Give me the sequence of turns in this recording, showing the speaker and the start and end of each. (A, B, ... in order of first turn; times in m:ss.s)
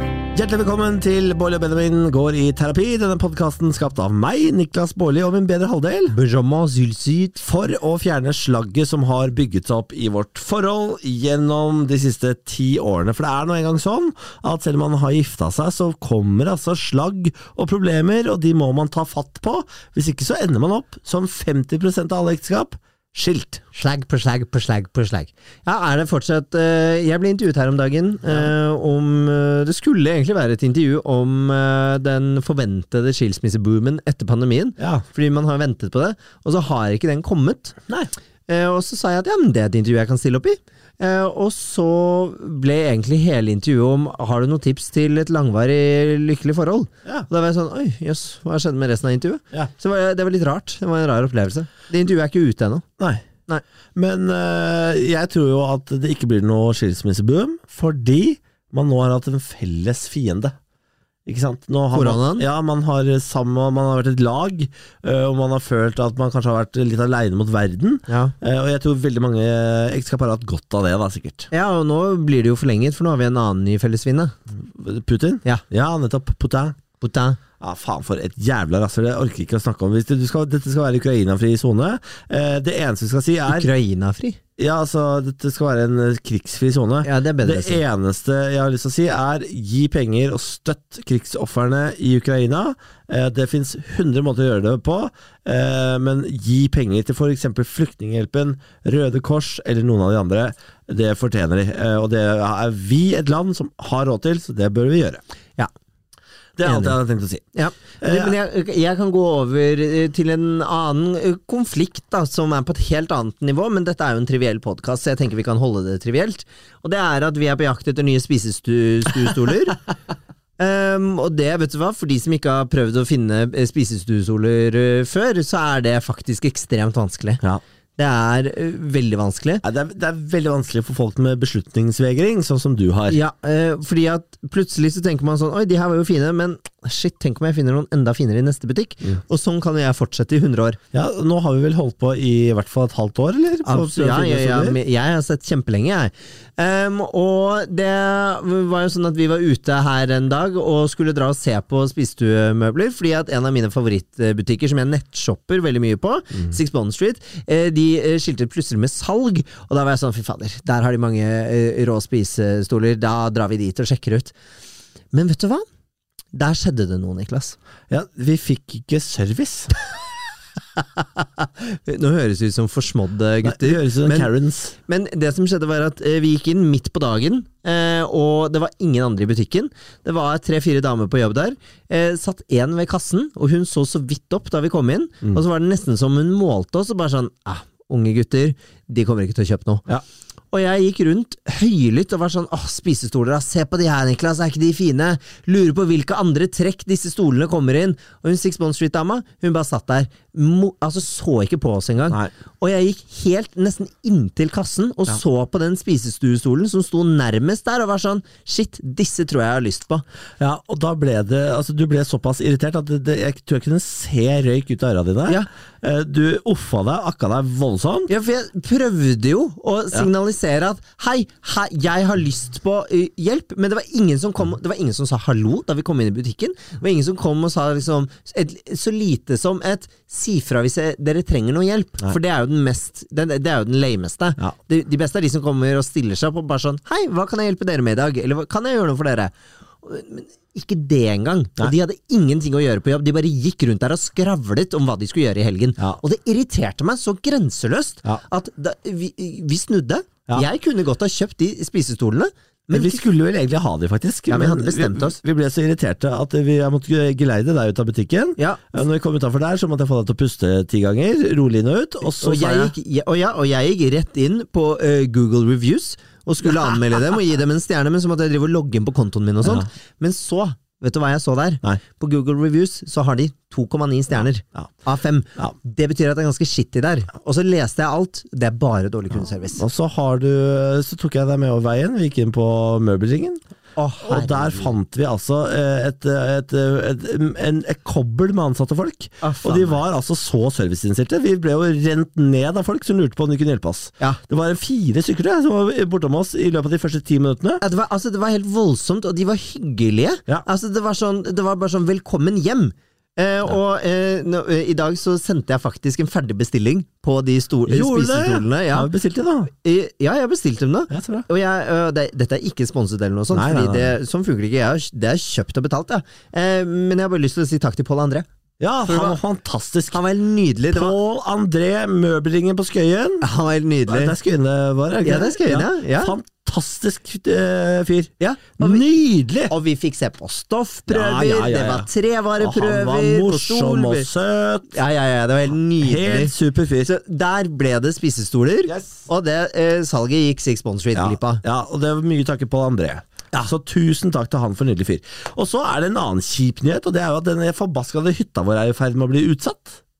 0:00.3-0:06.2 A
0:06.1-0:07.4 B
0:07.4-0:23.6 A
0:23.7-0:37.8 B
0:34.8-0:35.0 A
0:38.5-0:52.9 B
0:53.0-0:53.3 A
0:54.0-1:00.6 A
1:01.3-1:11.5 A
1:01.9-1:02.4 B
1:08.1-1:08.3 B
1:11.5-1:14.4 B
1:14.6-1:16.8 A
1:17.0-1:17.4 B
1:17.6-1:23.7 A
1:23.5-1:24.4 B
1:24.6-1:45.2 A
1:27.0-1:27.8 B
1:46.6-1:47.5 A
1:46.6-1:47.0 B
1:47.6-1:59.8 B
1:48.0-1:48.3 A
2:00.6-2:07.4 B
2:08.0-2:09.6 B
2:09.6-2:13.2 A
2:13.1-2:20.8 B
2:20.9-2:24.8 A
2:23.6-2:44.3 B
2:45.1-2:45.6 B
2:46.3-2:47.6 B
2:47.9-2:49.7 A
2:51.0-2:54.3 B
2:53.4-2:54.8 A
2:54.9-3:09.8 B
3:10.5-3:30.0 B
3:30.4-3:38.1 A
3:38.1-4:13.0 B
4:12.7-4:22.7 A
4:14.3-4:15.1 B
4:18.4-4:18.6 B
4:22.2-4:39.6 B
4:39.6-4:43.4 A
4:43.8-4:44.7 B
4:44.0-4:57.6 A
4:49.2-4:49.8 B
4:57.6-5:08.9 B
5:07.7-5:09.5 A
5:09.6-5:18.3 B
5:10.9-5:11.3 A
5:13.3-5:14.0 A
5:18.6-5:20.0 A
5:18.9-5:19.2 B
5:19.9-5:21.0 B
5:20.7-5:23.2 A
5:23.2-5:24.2 B
5:23.9-5:29.5 A
5:25.0-5:26.2 B
5:28.2-5:28.8 B
5:29.5-5:34.1 B
5:30.9-5:34.7 A
5:34.7-5:36.3 B
5:35.8-5:36.9 A
5:36.9-5:41.4 B
5:38.7-5:39.1 A
5:41.0-5:49.8 A